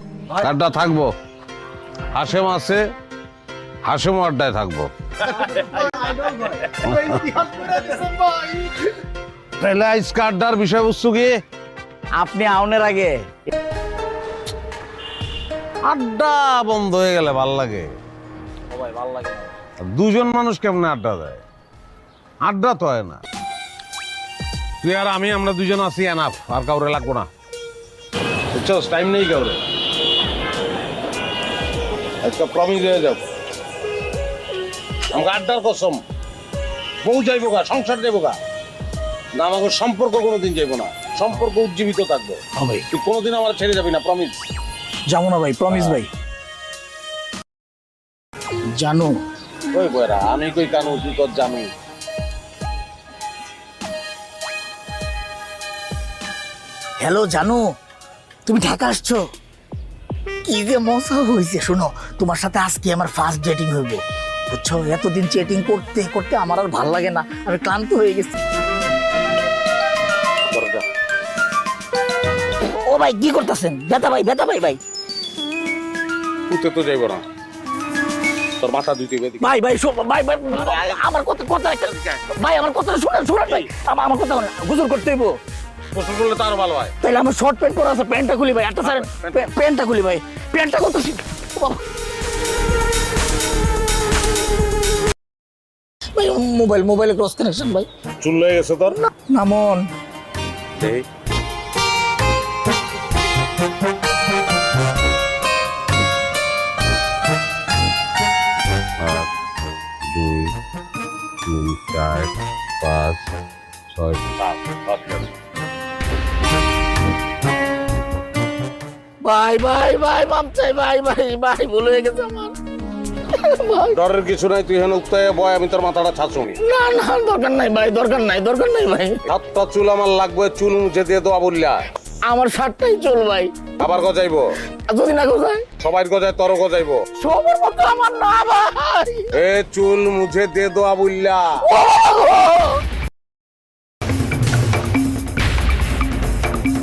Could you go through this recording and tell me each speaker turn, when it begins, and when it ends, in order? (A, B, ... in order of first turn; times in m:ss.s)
0:00.3-0:01.1 A
0:02.1-0:02.8 A
0:03.8-0:05.9 A
0:05.5-0:08.7 B
0:06.5-0:07.2 A
0:09.6-0:11.4 A
0:12.2-0:13.2 B
0:15.8-0:17.9 A
0:18.7-0:19.5 B
0:19.8-0:21.4 A
0:22.4-0:23.2 A
0:24.8-0:27.3 A
0:28.5-0:29.6 A
0:32.2-0:33.3 A
0:35.1-0:36.0 A
0:37.0-0:38.4 A
0:39.3-0:44.3 A
0:42.6-0:42.8 B
0:45.1-0:46.1 B
0:45.7-0:46.0 A
0:48.7-0:49.2 B
0:49.7-0:51.7 A
0:57.0-0:57.6 B
0:58.4-0:59.2 B
1:00.4-1:08.4 B
1:10.5-1:10.8 A
1:12.6-1:14.8 B
1:16.5-1:17.2 A
1:18.6-1:19.5 A
1:19.4-1:25.4 B
1:20.7-1:20.9 A
1:25.9-1:26.9 A
1:27.0-1:31.8 B
1:28.8-1:29.4 A
1:36.2-1:37.9 B
1:38.2-1:39.0 A
1:39.3-1:39.9 B
1:40.8-1:41.0 A
1:49.0-1:49.3 A
1:50.1-1:50.5 A
1:51.4-1:53.3 A
1:53.9-1:55.3 A
1:59.2-2:02.6 B
2:03.3-2:04.0 B
2:03.9-2:06.6 A
2:06.6-2:09.2 B
2:09.2-2:11.8 A
2:12.2-2:13.6 B
2:13.8-2:14.5 A
2:14.9-2:15.7 B
2:15.8-2:17.0 A
2:17.2-2:19.3 B
2:19.3-2:21.6 A
2:21.7-2:22.8 B